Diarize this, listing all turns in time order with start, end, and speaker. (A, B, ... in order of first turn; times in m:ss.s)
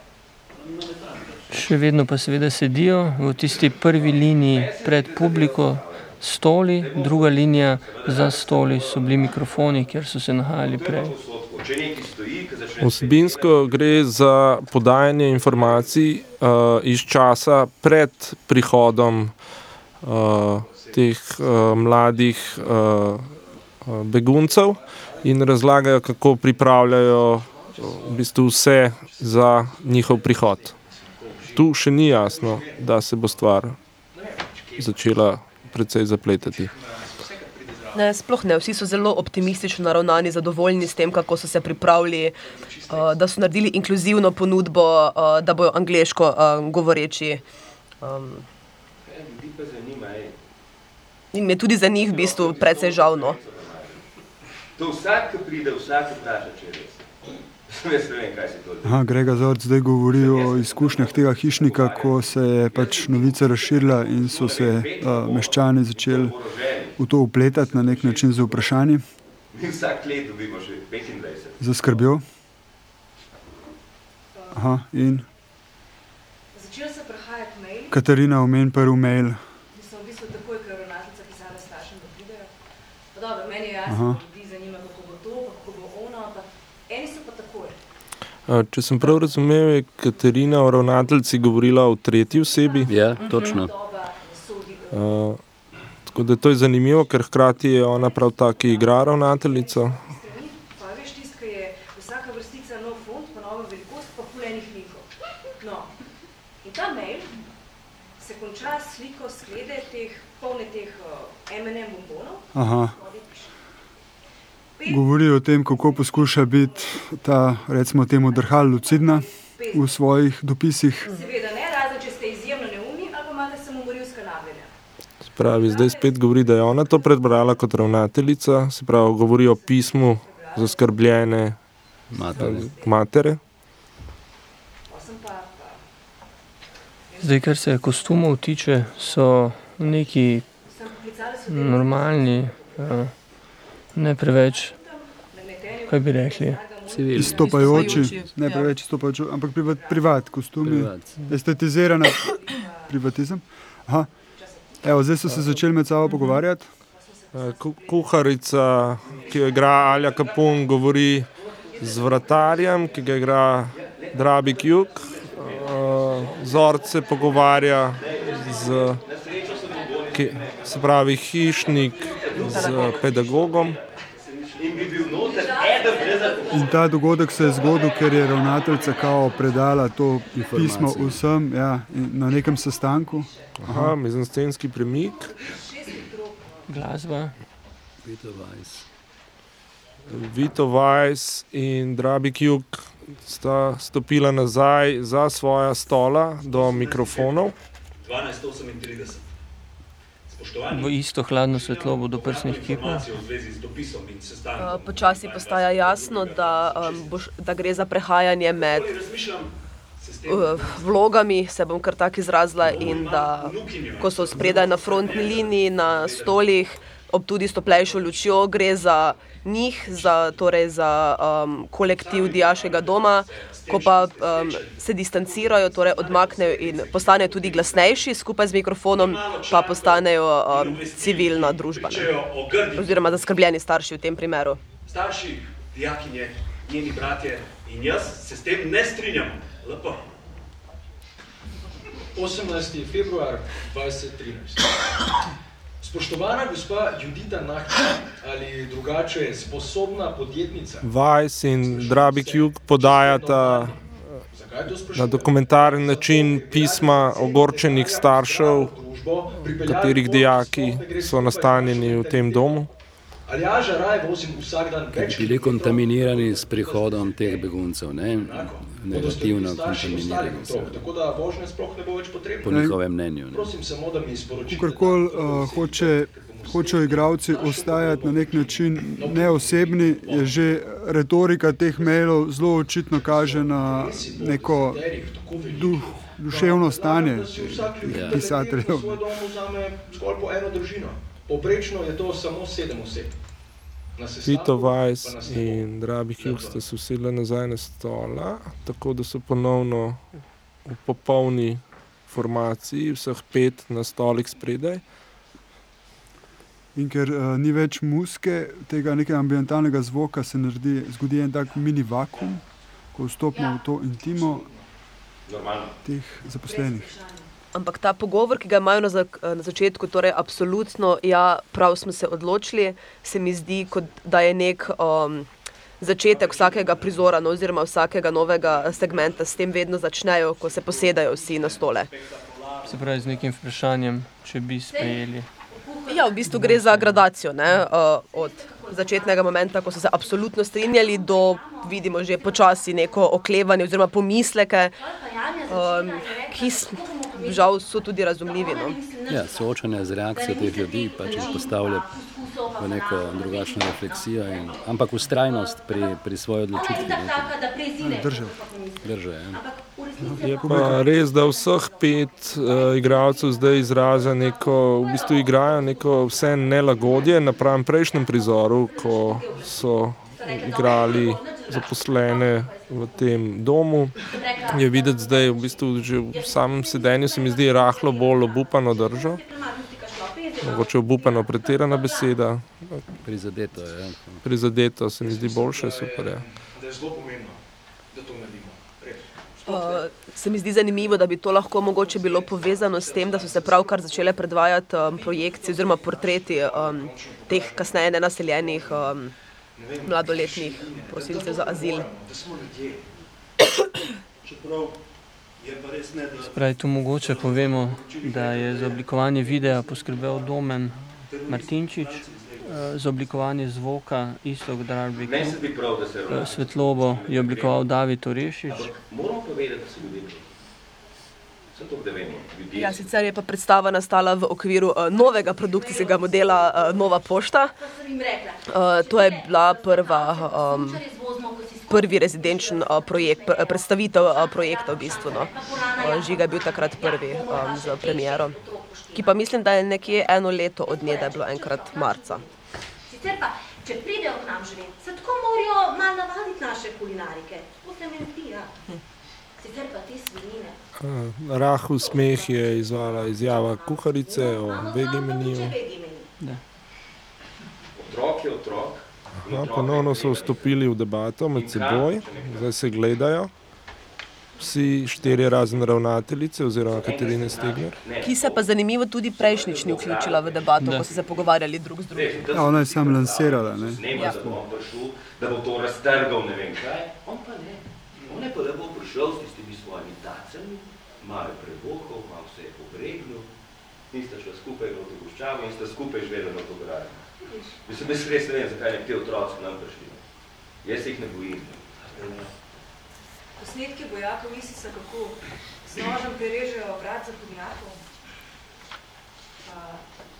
0:00.5-0:01.6 A
0:01.5-0:11.1 B
0:03.5-0:06.2 C
0:06.8-0:09.9 C
0:10.6-0:14.1 C
0:12.8-0:19.4 D
0:15.5-0:15.9 C
0:20.0-0:23.3 D
0:20.6-0:22.2 E
0:23.9-0:30.8 D
0:24.4-0:25.5 E
0:27.2-0:33.4 E
0:31.5-0:33.8 D
0:34.1-0:35.6 E
0:34.8-0:36.7 D
0:36.4-0:38.1 E
0:38.0-0:47.4 F
0:42.4-0:43.2 E
0:48.0-0:48.5 F
0:49.1-0:50.3 C
0:51.3-0:53.4 F
0:52.0-0:54.0 C
0:54.8-0:57.1 C
0:57.7-0:59.1 C
0:58.8-1:06.3 G
1:00.1-1:07.0 C
1:07.0-1:09.0 G
1:07.6-1:08.8 C
1:09.5-1:12.1 C
1:11.6-1:12.2 G
1:14.4-1:14.6 H
1:14.5-1:15.3 G
1:16.5-1:18.0 H
1:17.9-1:19.4 G
1:19.7-1:22.5 H
1:23.1-1:27.8 H
1:23.9-1:24.2 G
1:28.5-1:33.1 D
1:32.3-1:35.1 H
1:32.9-1:33.7 I
1:33.2-1:33.6 F
1:34.9-1:35.4 D
1:36.0-1:40.0 D
1:37.9-1:45.9 H
1:46.6-1:47.3 H
1:48.2-1:53.5 H
1:52.5-1:53.0 G
1:54.8-1:57.0 H
1:54.9-2:01.1 G
1:58.3-2:00.0 H
2:01.0-2:04.7 H
2:05.2-2:11.6 D
2:05.5-2:07.7 H
2:09.3-2:11.2 H
2:12.1-2:12.7 I
2:12.3-2:13.4 D
2:12.4-2:12.9 H
2:14.9-2:15.8 H
2:17.1-2:19.9 H
2:17.2-2:20.4 B
2:20.6-2:23.0 H
2:21.5-2:23.1 B
2:23.9-2:24.7 B
2:24.4-2:28.2 H
2:25.9-2:26.6 B
2:26.9-2:28.1 I
2:27.1-2:32.3 G
2:27.4-2:28.7 F
2:29.8-2:30.3 H
2:30.6-2:31.2 I
2:32.1-2:33.0 H
2:32.9-2:34.1 G
2:34.3-2:35.5 H
2:34.8-2:36.7 G
2:36.9-2:39.9 H
2:37.3-2:49.0 D
2:39.5-2:40.2 E
2:41.6-2:42.9 E
2:41.7-2:42.8 H
2:43.7-2:54.0 C
2:48.5-2:48.9 H
2:49.6-2:50.1 H
2:49.7-2:50.5 A
2:50.1-2:53.8 D
2:52.4-2:52.9 F
2:54.1-2:57.9 A
2:54.6-2:56.4 C
2:55.2-3:00.2 H
2:55.5-2:56.7 J
2:56.5-3:04.0 G
3:00.3-3:01.3 I
3:02.3-3:03.6 H
3:03.6-3:05.3 D
3:04.8-3:06.9 H
3:06.7-3:07.4 B
3:08.0-3:08.9 I
3:10.1-3:17.5 D
3:16.4-3:19.3 A
3:20.3-3:27.2 A
3:20.7-3:23.1 B
3:24.6-3:29.0 F
3:28.5-3:31.1 A
3:30.3-3:54.6 F
3:32.6-3:36.6 A
3:37.9-3:38.4 A
3:39.9-3:40.4 A
3:41.9-3:48.0 A
3:48.9-3:53.3 A
3:54.9-4:00.1 A
4:02.2-4:04.7 E
4:05.8-4:10.9 E
4:10.8-4:13.8 D
4:11.6-4:22.6 E
4:14.9-4:18.8 D
4:19.5-4:22.7 D
4:23.3-4:40.5 E
4:24.9-4:30.8 I
4:32.4-4:33.5 I
4:32.4-4:32.8 G
4:34.5-4:49.0 G
4:41.8-4:42.3 E
4:42.9-4:53.2 E
4:47.9-4:48.3 I
4:54.0-4:55.7 E
4:54.2-5:00.1 D
5:00.7-5:04.8 D
5:06.8-5:12.4 G
5:12.9-5:14.5 G
5:14.1-5:14.6 E
5:15.3-5:15.8 C
5:15.8-5:16.9 G
5:16.4-5:17.3 H
5:17.5-5:25.3 F
5:25.8-5:31.9 F
5:26.0-5:27.2 A
5:28.4-5:29.5 A
5:30.4-5:33.3 A
5:32.6-5:35.3 B
5:34.7-5:36.4 J
5:35.9-5:44.8 F
5:36.3-5:37.0 B
5:38.0-5:43.3 J
5:44.8-5:47.7 J
5:45.5-5:48.8 F
5:48.2-6:22.3 J
5:49.1-5:52.0 I
5:52.6-5:57.3 I
5:57.8-5:58.4 G
5:58.8-5:59.4 I
6:00.0-6:00.8 G
6:00.2-6:19.2 D
6:20.4-6:22.8 D
6:23.0-6:24.2 I
6:24.2-6:26.2 D
6:25.0-6:27.4 E
6:27.9-6:29.9 E
6:29.5-6:39.1 F
6:31.6-6:34.3 E
6:34.9-6:39.0 E
6:39.6-6:42.8 E
6:39.8-6:41.9 F
6:44.2-6:44.8 A
6:45.4-6:50.3 A
6:46.3-6:55.4 B
6:51.1-6:52.6 A
6:55.0-6:57.6 C
6:56.1-6:58.7 B
6:58.5-7:00.2 C
7:01.6-7:02.9 C
7:02.5-7:07.5 F
7:05.0-7:07.0 J
7:07.6-7:19.2 J
7:08.5-7:10.8 F
7:11.7-7:18.4 F
7:18.9-7:22.2 F
7:19.8-7:22.3 J
7:22.9-7:28.5 J
7:29.4-7:30.6 J
7:30.8-7:35.6 D
7:31.8-7:36.1 J
7:37.8-7:40.6 C
7:39.2-7:43.3 D
7:41.4-7:42.5 C
7:44.4-7:47.8 D
7:45.0-7:45.6 C
7:46.7-7:48.5 C
7:48.0-7:52.5 F
7:49.2-7:51.2 C
7:50.6-7:50.9 B
7:51.9-8:03.3 C
7:52.3-7:54.4 G
7:53.9-7:54.2 F
8:03.9-8:07.0 C
8:07.6-8:10.0 C
8:10.6-8:12.2 C
8:11.9-8:12.3 A
8:13.4-8:17.8 H
8:19.4-8:19.8 H